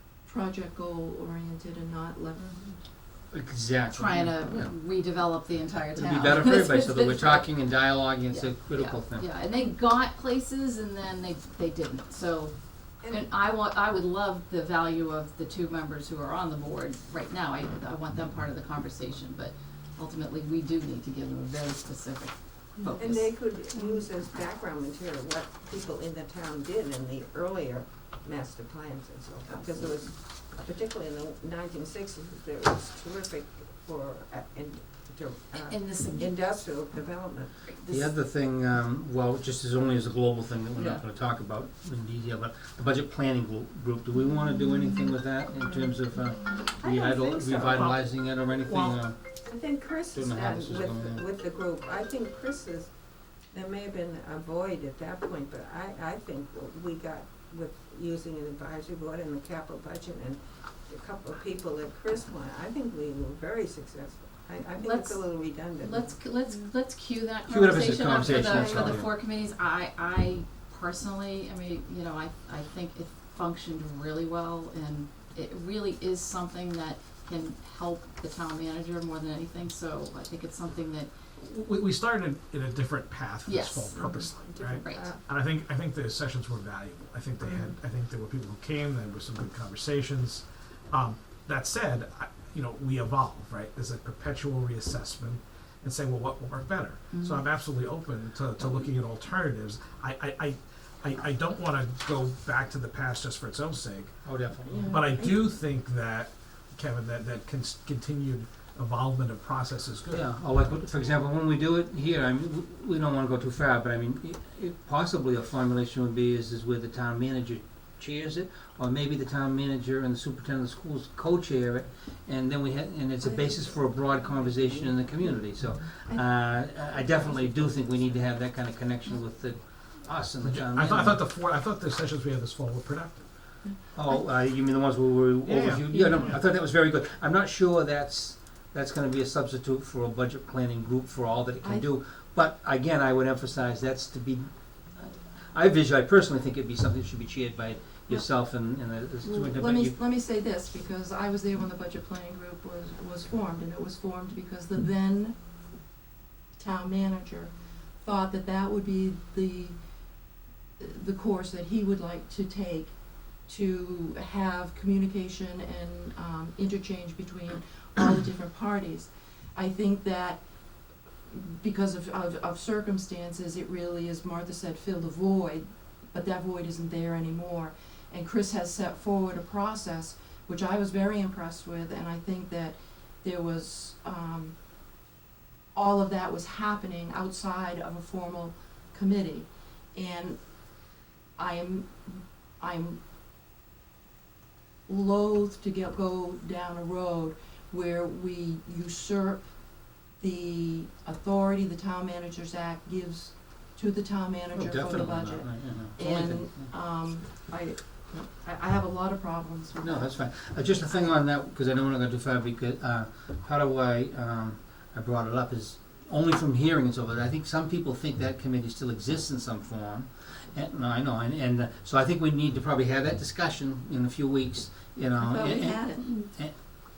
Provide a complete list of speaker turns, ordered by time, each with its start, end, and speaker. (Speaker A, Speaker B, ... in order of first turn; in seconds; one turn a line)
Speaker A: 0.2-2.4
Speaker B: 2.4-2.8
Speaker C: 3.3-4.7
Speaker D: 3.9-7.6
Speaker C: 5.9-9.3
Speaker D: 8.3-12.5
Speaker B: 13.0-13.3
Speaker D: 13.1-23.8
Speaker B: 23.0-37.5
Speaker D: 29.5-29.9
Speaker D: 35.5-36.3
Speaker D: 37.7-38.1
Speaker C: 37.9-49.2
Speaker B: 40.8-41.0
Speaker B: 46.8-47.9
Speaker E: 47.7-48.0
Speaker E: 48.6-49.0
Speaker B: 49.4-52.9
Speaker C: 50.1-51.2
Speaker B: 53.5-66.2
Speaker D: 64.8-81.1
Speaker C: 67.5-69.1
Speaker B: 68.3-69.0
Speaker E: 81.4-104.2
Speaker D: 83.4-84.1
Speaker B: 84.0-85.2
Speaker D: 84.8-85.1
Speaker D: 97.1-97.4
Speaker C: 104.2-104.9
Speaker B: 104.8-105.3
Speaker E: 104.9-110.3
Speaker C: 110.1-131.2
Speaker B: 123.2-123.7
Speaker B: 124.4-125.0
Speaker B: 127.1-127.5
Speaker E: 130.4-133.3
Speaker C: 133.9-150.0
Speaker E: 135.4-136.4
Speaker A: 141.6-141.9
Speaker A: 149.2-155.3
Speaker A: 156.6-159.8
Speaker A: 160.8-162.9
Speaker A: 163.5-170.4
Speaker A: 171.3-184.5
Speaker A: 185.8-190.4
Speaker A: 191.4-193.0
Speaker A: 194.9-199.4
Speaker A: 200.2-210.2
Speaker C: 204.5-206.7
Speaker C: 209.8-226.5
Speaker A: 225.2-226.2